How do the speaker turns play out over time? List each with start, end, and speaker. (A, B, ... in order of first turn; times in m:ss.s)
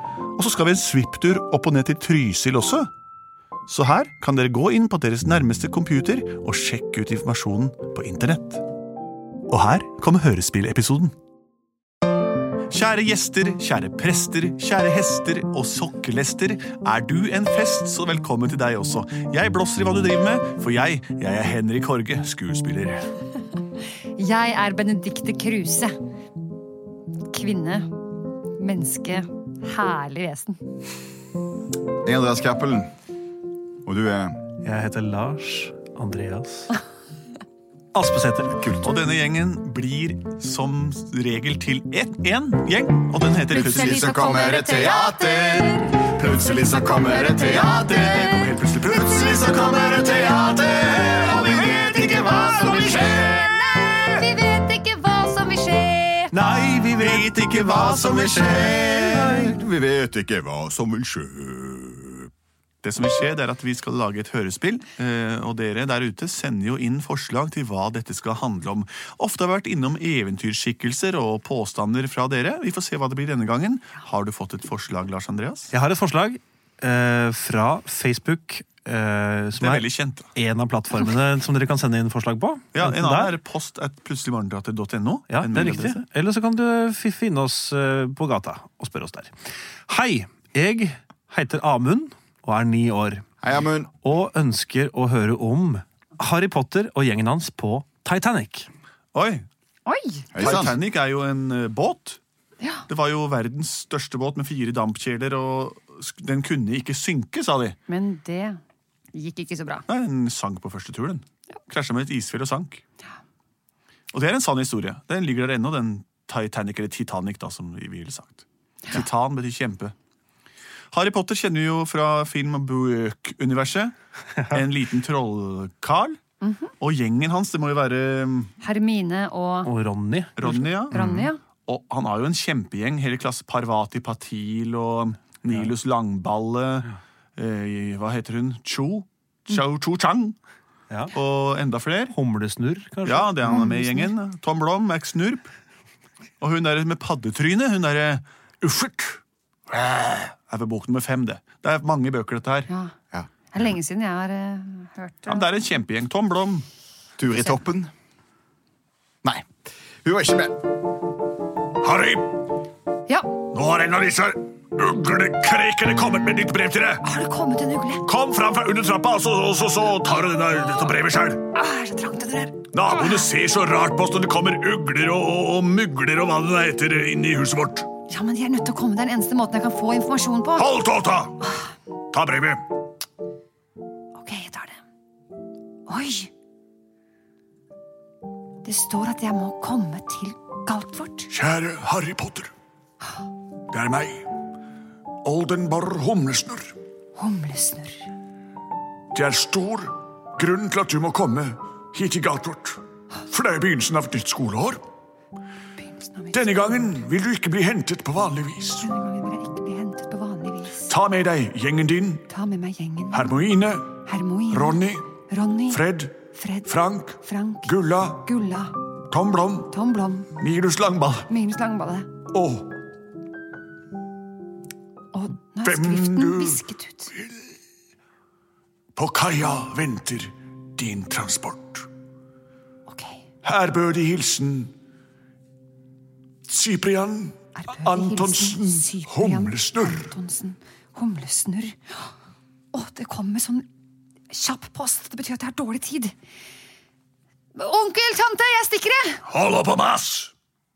0:00.4-0:02.9 A
0:03.7-0:08.6 A
0:09.5-0:11.1 A
0:12.7-0:23.1 A
0:24.2-0:26.0 B
0:27.3-0:27.9 B
0:28.6-0:30.6 B
0:32.0-0:32.9 C
0:33.8-0:34.4 C
0:34.6-0:36.7 D
0:37.9-0:38.5 D
0:38.8-0:44.2 A
0:43.5-0:48.5 B
0:43.5-0:53.4 C
0:47.6-0:49.3 A
0:49.8-0:50.4 B
0:50.8-0:53.3 A
0:51.0-0:56.3 B
0:56.3-0:59.6 A
0:57.6-1:02.3 C
1:02.8-1:15.7 A
1:15.7-1:23.3 D
1:19.6-1:20.3 A
1:22.7-1:26.0 A
1:25.3-1:29.3 D
1:29.9-1:33.2 D
1:33.4-1:33.9 C
1:34.0-1:38.7 D
1:39.1-1:39.4 A
1:39.8-1:40.3 B
1:40.3-1:40.8 C
1:40.4-1:42.2 A
1:42.6-1:42.8 B
1:42.9-1:47.8 A
1:47.9-1:48.6 B
1:49.1-1:49.8 B
1:49.9-1:52.8 A
1:54.1-1:59.9 A
2:00.9-2:03.9 A
2:04.5-2:06.2 A
2:06.4-2:06.7 B
2:06.8-2:08.5 A
2:08.6-2:09.7 B
2:09.6-2:11.3 D
2:10.4-2:11.0 A
2:10.9-2:11.4 B
2:11.6-2:20.4 A
2:21.1-2:22.1 A
2:22.1-2:24.1 D
2:23.0-2:25.5 A
2:26.4-2:32.7 A
2:32.7-2:33.0 B
2:33.5-2:35.5 B
2:35.3-2:36.7 A
2:37.2-2:37.9 C
2:39.2-2:39.5 C
2:40.0-2:40.7 C
2:41.8-2:42.3 A
2:43.5-2:47.0 A
2:47.0-2:48.0 B
2:48.0-2:51.4 A
2:51.5-2:53.3 B
2:52.7-2:57.9 A
2:58.1-3:00.7 B
3:00.6-3:01.4 A
3:02.1-3:02.6 A
3:04.1-3:04.8 B
3:05.9-3:06.3 B
3:08.6-3:11.3 B
3:11.3-3:12.5 A
3:13.7-3:14.3 A
3:15.2-3:16.7 A
3:17.2-3:18.1 B
3:19.1-3:24.8 A
3:25.8-3:26.7 B
3:26.3-3:28.9 A
3:28.8-3:30.9 B
3:30.9-3:32.2 A
3:32.3-3:33.3 B
3:33.1-3:34.0 A
3:34.0-3:35.8 B
3:34.5-3:35.1 A
3:35.7-3:38.3 A
3:36.3-3:38.7 B
3:39.1-3:39.7 A
3:39.7-3:40.3 B
3:40.4-3:41.3 A
3:41.3-3:42.1 B
3:42.3-3:42.7 A
3:45.1-3:47.1 B
3:45.6-3:46.6 A
3:49.0-3:51.9 A
3:52.9-3:53.2 B
3:53.4-3:54.7 A
3:56.5-4:00.1 A
3:57.6-4:02.1 B
4:02.7-4:03.6 B
4:04.3-4:06.1 B
4:07.6-4:09.2 B
4:09.2-4:10.3 A